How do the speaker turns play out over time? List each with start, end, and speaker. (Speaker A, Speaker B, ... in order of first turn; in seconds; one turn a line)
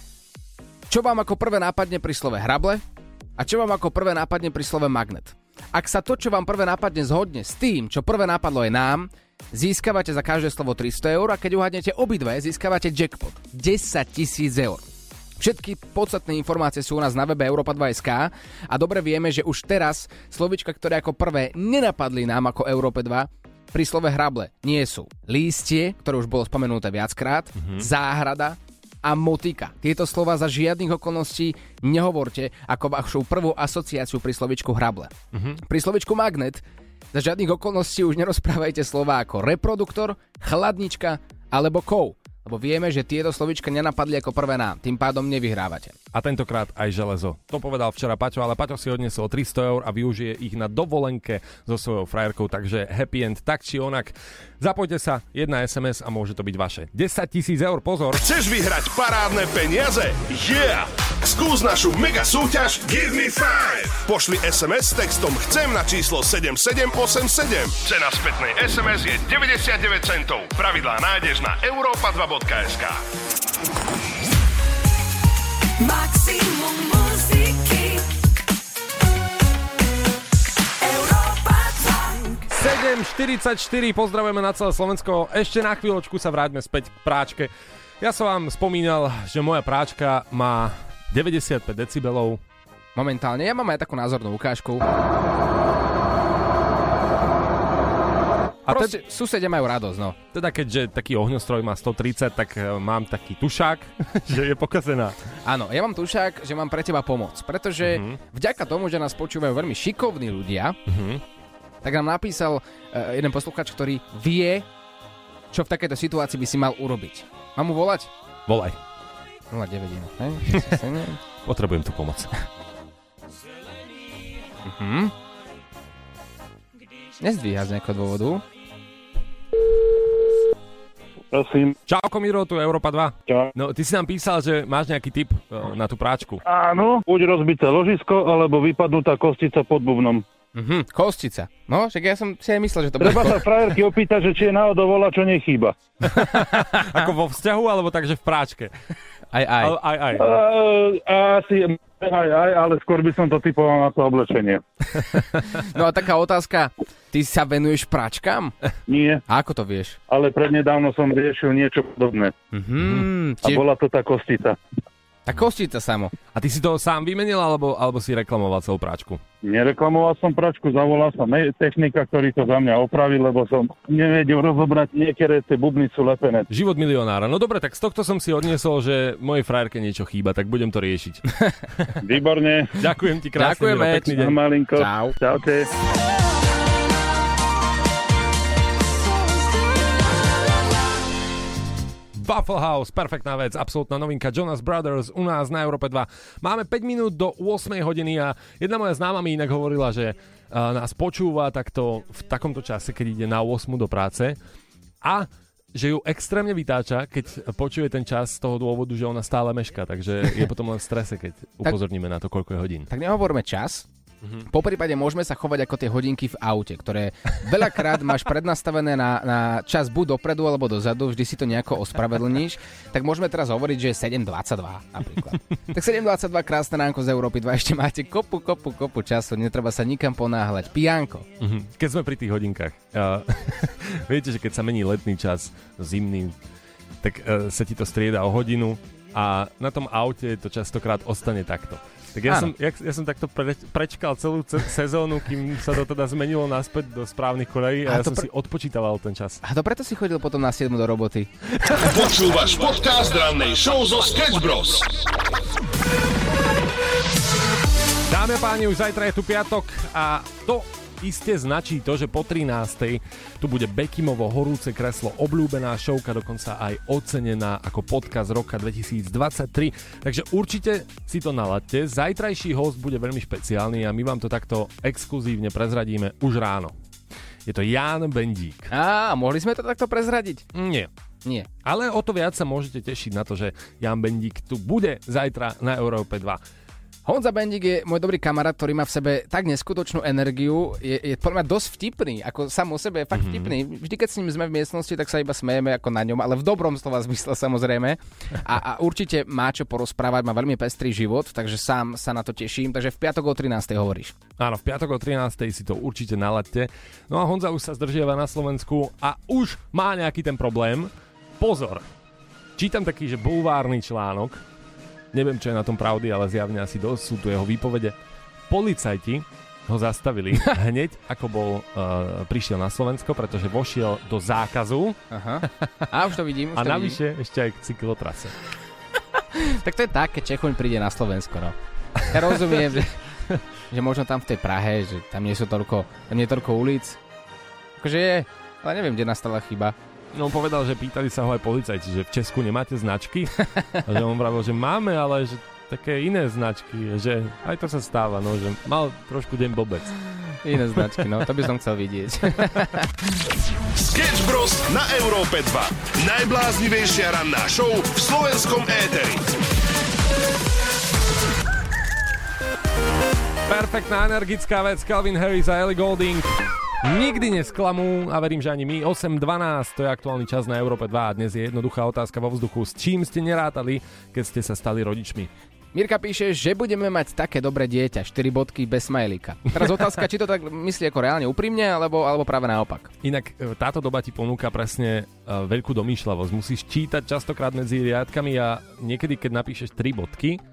Speaker A: 0.9-2.8
Speaker A: 3.4-14.8
Speaker A: 15.4-46.0
Speaker B: 27.6-27.9
Speaker B: 35.3-35.6
Speaker B: 46.1-58.2
Speaker C: 58.2-73.0
Speaker D: 75.8-78.0
Speaker D: 80.8-82.3
Speaker B: 82.5-92.4
Speaker A: 93.0-94.9
Speaker A: 98.7-100.2
Speaker B: 98.7-99.0
Speaker B: 100.3-105.2
Speaker A: 105.4-110.8
Speaker B: 107.8-108.2
Speaker B: 110.9-111.2
Speaker A: 111.8-114.7
Speaker A: 115.5-118.1
Speaker B: 118.5-118.8
Speaker A: 119.5-121.2
Speaker B: 120.5-120.8
Speaker B: 121.4-122.3
Speaker A: 124.6-125.1
Speaker A: 127.2-128.4
Speaker E: 131.3-131.8
Speaker B: 131.9-136.4
Speaker E: 133.3-133.5
Speaker E: 136.4-140.2
Speaker A: 140.5-143.4
Speaker E: 143.0-145.7
Speaker B: 146.1-148.7
Speaker A: 146.2-147.1
Speaker A: 149.3-149.8
Speaker B: 149.6-150.2
Speaker E: 150.1-154.6
Speaker A: 155.5-158.5
Speaker E: 158.9-159.2
Speaker A: 159.3-160.0
Speaker E: 160.1-162.3
Speaker A: 162.5-163.6
Speaker E: 163.4-164.6
Speaker A: 165.3-166.1
Speaker B: 166.3-169.2
Speaker E: 169.4-176.5
Speaker B: 176.5-181.9
Speaker E: 182.0-182.8
Speaker B: 182.8-184.4
Speaker A: 183.4-185.2
Speaker E: 184.1-185.7
Speaker B: 192.1-204.4
Speaker B: 205.0-212.9
Speaker A: 212.9-213.9
Speaker A: 214.5-231.3
Speaker B: 231.4-236.4
Speaker B: 237.0-249.4
Speaker A: 247.9-248.2
Speaker A: 249.4-251.3
Speaker B: 251.6-251.9
Speaker C: 251.8-255.0
Speaker B: 258.1-276.7
Speaker B: 277.4-278.7
Speaker A: 278.7-280.4
Speaker B: 280.5-280.9
Speaker B: 281.6-286.4
Speaker A: 287.1-304.1
Speaker B: 293.1-293.5
Speaker B: 304.4-311.9
Speaker B: 312.6-314.4
Speaker B: 315.1-317.9
Speaker B: 318.5-325.0
Speaker A: 325.1-327.0
Speaker B: 326.5-328.4
Speaker A: 329.3-332.9
Speaker A: 333.7-337.0
Speaker A: 337.8-339.7
Speaker B: 340.1-349.9
Speaker A: 350.4-352.9
Speaker C: 353.7-359.2
Speaker B: 363.4-375.3
Speaker A: 375.7-382.9
Speaker B: 383.0-390.4